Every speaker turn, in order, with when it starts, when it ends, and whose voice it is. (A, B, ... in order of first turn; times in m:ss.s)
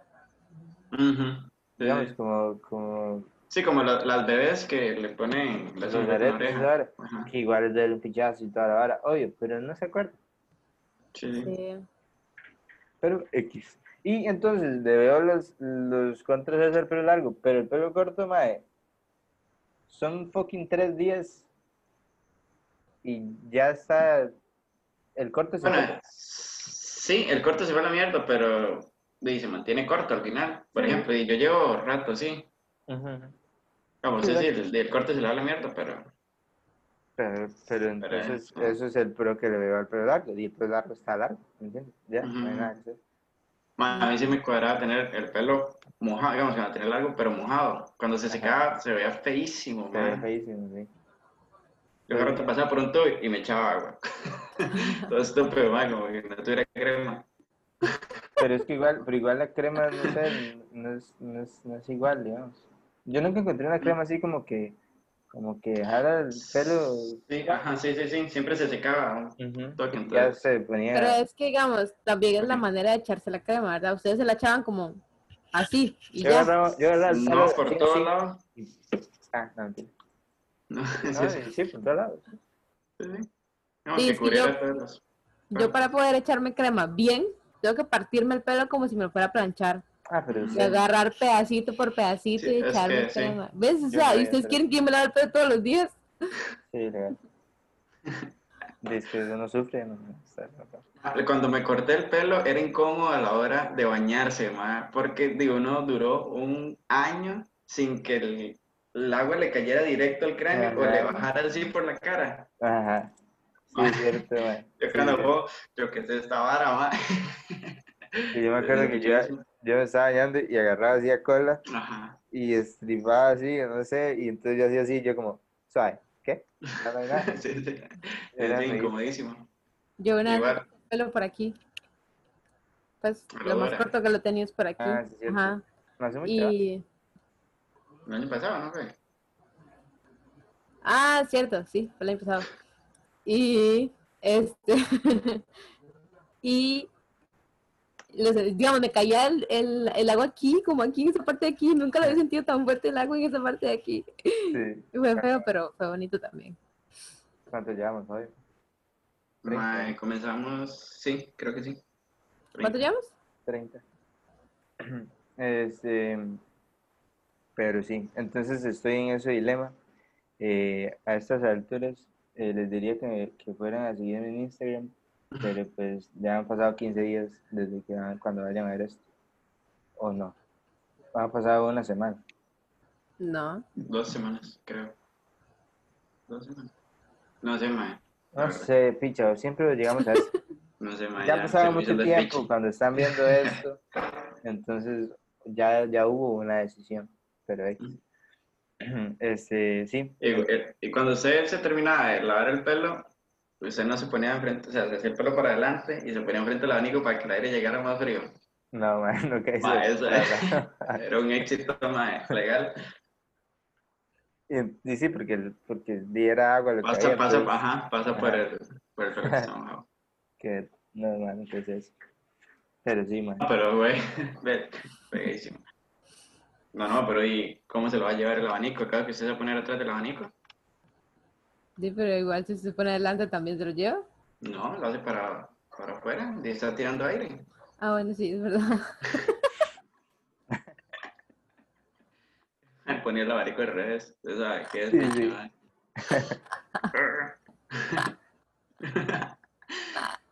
0:00.9-0:02.1 A
0:01.8-0:03.3 B
0:03.5-0:07.3 A
0:05.8-0:10.2 B
0:11.1-0:11.5 A
0:11.4-0:11.8 C
0:13.0-0:18.6 B
0:19.9-0:21.5 B
0:23.0-0:24.3 B
0:25.2-0:25.9 B
0:25.6-0:32.5 A
0:30.8-0:31.1 B
0:32.9-0:33.4 B
0:34.0-0:36.1 A
0:37.2-0:43.0 B
0:38.0-0:38.8 A
0:42.2-0:42.7 A
0:43.8-0:50.2 A
0:43.9-0:44.2 C
0:48.3-0:48.6 B
0:49.9-0:50.9 B
0:52.1-0:57.3 A
0:52.1-0:52.5 B
0:58.4-1:04.8 B
1:05.3-1:07.6 B
1:06.4-1:10.4 A
1:09.4-1:11.2 B
1:10.9-1:15.0 C
1:15.5-1:16.5 C
1:16.2-1:18.7 B
1:17.1-1:18.4 A
1:19.3-1:19.9 B
1:20.7-1:21.5 A
1:21.1-1:22.2 B
1:23.0-1:23.3 A
1:23.9-1:25.0 A
1:24.0-1:24.6 C
1:25.5-1:29.8 C
1:30.1-1:30.8 B
1:30.3-1:30.7 A
1:30.5-1:36.0 C
1:32.4-1:33.4 A
1:33.9-1:34.6 B
1:36.7-1:37.2 B
1:38.8-1:40.8 B
1:41.0-1:52.5 A
1:50.5-1:51.3 B
1:52.6-1:53.1 B
1:53.7-1:54.2 A
1:53.7-1:55.3 B
1:54.8-1:59.4 A
1:58.3-2:01.6 B
2:01.7-2:02.2 A
2:02.3-2:07.3 B
2:06.7-2:09.5 A
2:08.4-2:08.9 B
2:10.0-2:11.6 C
2:10.2-2:10.7 A
2:13.0-2:15.6 C
2:13.3-2:13.9 A
2:14.8-2:16.6 B
2:16.2-2:16.8 C
2:18.1-2:18.9 A
2:20.8-2:22.5 C
2:23.3-2:25.4 C
2:26.4-2:26.9 C
2:28.1-2:36.6 C
2:34.5-2:35.4 B
2:37.5-2:38.3 B
2:39.4-2:41.8 A
2:39.5-2:40.0 B
2:42.5-2:42.8 A
2:42.6-2:43.1 C
2:43.5-2:43.8 B
2:44.8-2:46.4 B
2:47.6-2:49.8 B
2:50.4-2:59.0 B
3:00.0-3:00.4 B
3:01.1-3:02.2 B
3:03.2-3:03.6 C
3:03.8-3:05.0 A
3:06.3-3:06.7 A
3:07.4-3:08.7 A
3:08.4-3:10.3 B
3:10.8-3:13.6 A
3:11.2-3:13.8 B
3:14.4-3:17.8 B
3:18.8-3:20.5 B
3:20.2-3:23.1 A
3:23.6-3:28.3 A
3:28.7-3:31.0 B
3:29.6-3:32.9 A
3:34.5-3:37.6 B
3:36.8-3:39.9 A
3:38.1-3:38.5 B
3:39.2-3:39.5 B
3:40.4-3:42.0 B
3:42.8-3:43.4 B
3:43.4-3:45.6 A
3:46.7-3:50.3 A
3:51.8-3:54.0 C
3:54.4-3:57.5 A
3:57.8-3:59.5 C
4:02.8-4:05.5 A
4:04.9-4:05.4 B
4:06.0-4:06.4 B
4:06.9-4:08.1 A
4:08.8-4:10.0 A